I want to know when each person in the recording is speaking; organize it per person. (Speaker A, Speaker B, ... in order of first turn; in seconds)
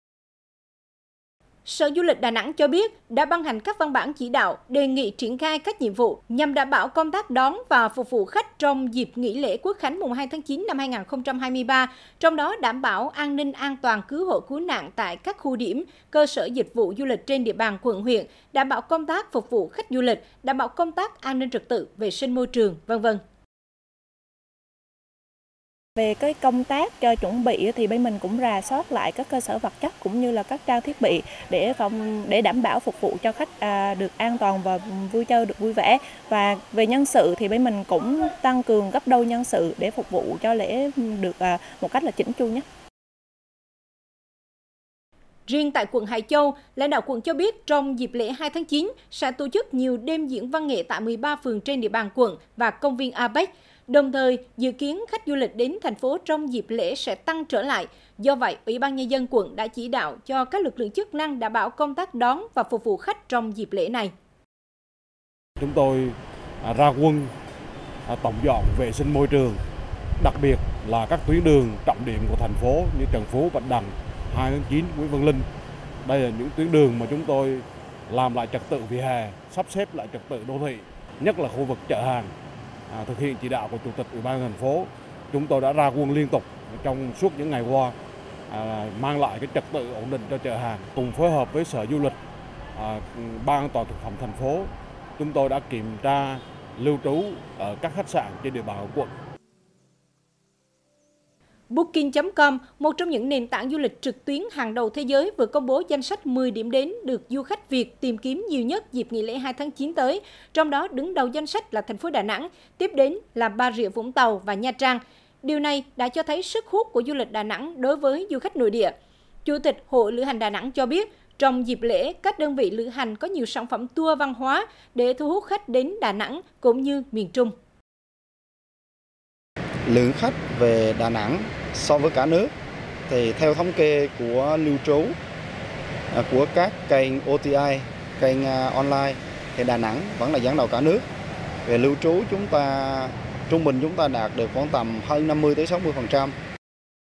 Speaker A: 1.6-23.2, 45.5-64.1, 101.7-118.9, 119.5-127.5
Speaker B: 26.0-42.6
Speaker C: 65.6-67.3, 68.1-69.6, 70.2-75.5, 76.0-82.3, 82.9-88.0, 88.5-92.2, 92.8-99.1
Speaker D: 129.9-132.5, 133.1-135.1, 136.1-141.0, 141.7-146.3